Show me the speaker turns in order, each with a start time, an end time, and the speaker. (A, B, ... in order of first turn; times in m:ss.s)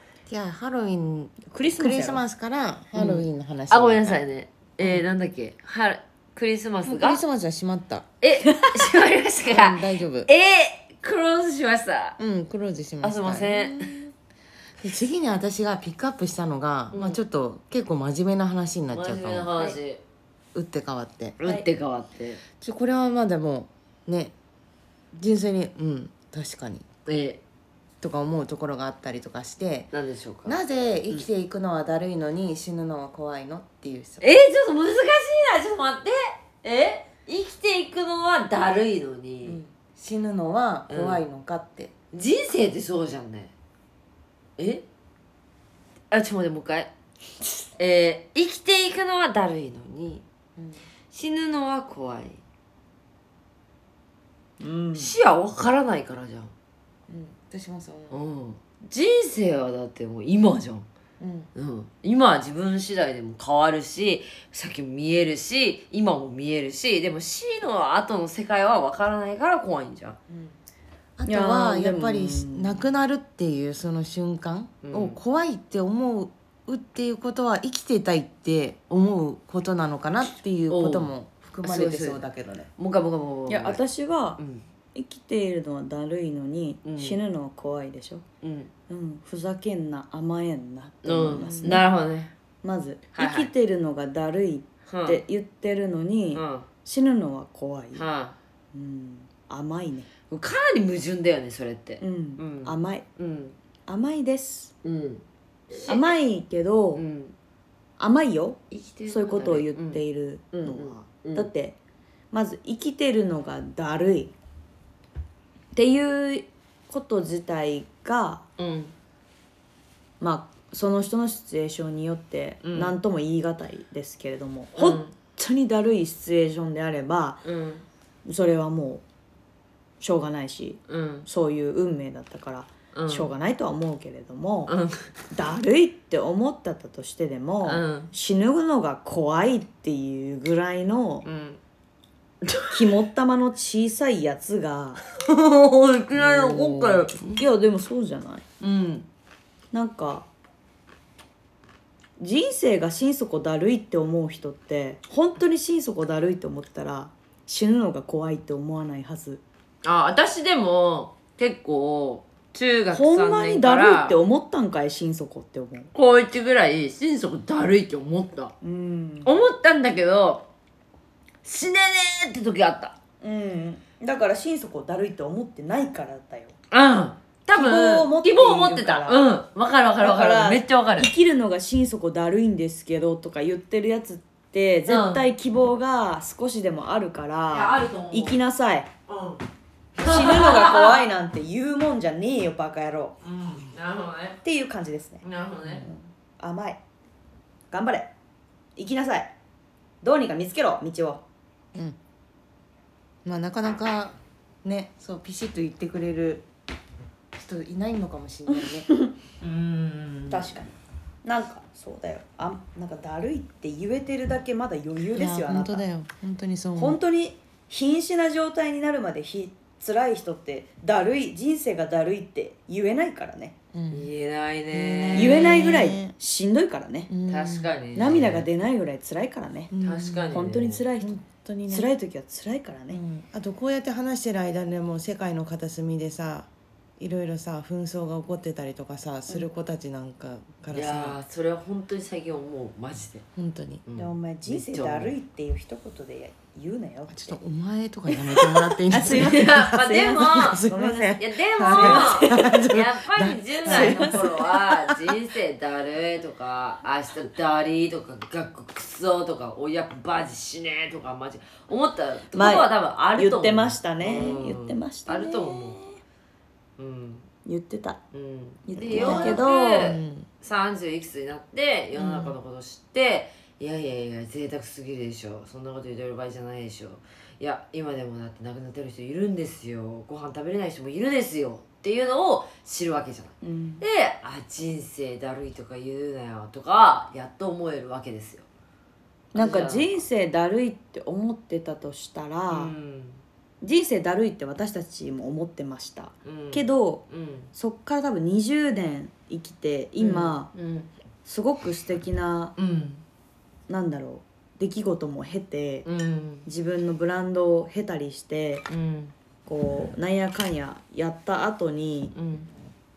0:00.3-0:04.2 A
0:01.4-0:02.2 B
0:02.9-0:07.2 C
0:06.8-0:08.0 A
0:08.2-0:12.2 C
0:08.5-0:08.9 B
0:09.5-0:10.3 A
0:12.2-0:14.1 A
0:13.0-0:14.0 C
0:14.8-0:19.5 A
0:16.9-0:17.2 C
0:18.9-0:20.0 C
0:20.5-0:21.4 A
0:21.4-0:22.4 C
0:22.6-0:24.3 A
0:25.1-0:26.8 A
0:27.0-0:27.4 C
0:28.0-0:29.9 A
0:29.9-0:30.6 C
0:30.4-0:34.3 A
0:34.2-0:39.6 C
0:39.5-0:41.9 A
0:40.9-0:41.2 C
0:42.1-0:43.5 C
0:44.6-0:44.8 C
0:46.1-0:46.9 C
0:47.8-0:50.2 C
0:51.1-0:52.4 C
0:54.6-0:55.1 B
0:54.9-0:56.5 C
0:57.1-0:58.2 A
0:58.1-1:00.9 C
1:01.2-1:01.5 A
1:01.5-1:10.2 C
1:11.2-1:22.7 A
1:11.3-1:12.8 B
1:14.8-1:15.2 C
1:20.7-1:22.2 C
1:22.8-1:23.8 C
1:23.5-1:24.4 B
1:24.4-1:24.6 C
1:24.9-1:28.2 B
1:26.8-1:27.2 C
1:28.4-1:28.7 C
1:28.9-1:31.8 B
1:31.0-1:32.3 C
1:32.6-1:38.0 B
1:33.1-1:33.5 C
1:34.9-1:35.2 C
1:36.3-1:36.6 C
1:37.9-1:38.4 C
1:38.7-1:40.1 B
1:40.3-1:43.5 C
1:42.0-1:43.0 B
1:43.9-1:44.7 B
1:44.8-1:46.1 C
1:45.9-1:47.0 B
1:46.9-1:47.3 C
1:48.0-1:51.8 B
1:48.7-1:50.0 C
1:50.5-1:51.5 C
1:52.3-1:54.3 B
1:55.7-1:58.4 B
1:58.6-1:58.9 C
2:00.2-2:07.4 B
2:02.6-2:03.0 C
2:04.8-2:05.1 C
2:07.4-2:07.8 C
2:08.2-2:09.0 B
2:10.0-2:14.7 B
2:10.9-2:11.3 C
2:12.9-2:13.3 C
2:14.7-2:15.0 C
2:15.3-2:21.2 B
2:17.6-2:18.1 C
2:21.2-2:21.6 C
2:22.4-2:22.8 C
2:22.7-2:25.0 B
2:25.1-2:27.4 C
2:26.2-2:28.4 B
2:28.6-2:29.0 C
2:29.7-2:30.3 B
2:32.2-2:39.4 B
2:39.8-2:44.2 C
2:42.9-2:45.9 B
2:45.9-2:48.5 C
2:48.6-2:49.4 B
2:49.2-2:50.4 C
2:51.4-2:52.9 C
2:53.2-2:56.5 B
2:56.7-3:01.1 C
2:57.5-2:59.2 B
3:00.0-3:08.9 B
3:04.9-3:05.2 C
3:07.5-3:08.4 C
3:09.1-3:09.4 C
3:10.0-3:11.0 C
3:10.0-3:13.1 B
3:13.2-3:14.4 C
3:14.4-3:15.2 B
3:15.2-3:15.9 C
3:15.8-3:16.8 B
3:17.7-3:18.1 B
3:18.8-3:19.3 B
3:20.0-3:21.2 B
3:23.2-3:26.4 A
3:27.3-3:28.9 A
3:28.5-3:29.1 B
3:29.4-3:30.5 C
3:30.3-3:30.7 B
3:31.2-3:35.8 B
3:35.1-3:37.0 A
3:36.8-3:43.6 B
3:43.7-3:44.1 A
3:43.9-3:45.8 C
3:44.7-3:46.1 A
3:45.1-3:47.1 B
3:47.1-3:47.7 A
3:47.3-3:48.5 C
3:47.9-3:49.7 B
3:49.7-3:50.2 A
3:49.8-3:50.8 C
3:50.3-3:51.1 B
3:51.0-3:51.9 A
3:51.7-3:53.0 B
3:52.9-4:01.2 A
4:00.7-4:03.2 C
4:03.3-4:03.8 A
4:03.9-4:05.1 C
4:03.9-4:07.4 B
4:07.1-4:15.1 A
4:08.3-4:12.4 B
4:09.0-4:10.6 C
4:11.2-4:25.8 C
4:13.7-4:14.2 B
4:22.3-4:26.0 B
4:26.8-4:27.3 C
4:27.4-4:28.0 B
4:28.1-4:48.4 C
4:28.7-4:29.9 B
4:28.9-4:30.2 A
4:32.0-4:32.3 B
4:43.4-4:43.8 B
4:49.3-4:49.9 C
4:49.3-4:52.7 B
4:52.5-4:53.2 C
4:53.6-5:00.5 B
4:56.2-4:57.5 C
5:00.0-5:00.9 C
5:01.2-5:02.5 B
5:02.6-5:03.0 C
5:03.7-5:05.9 B
5:05.8-5:06.4 C
5:06.4-5:08.6 B
5:08.7-5:09.1 C
5:09.4-5:12.1 B
5:12.1-5:12.5 C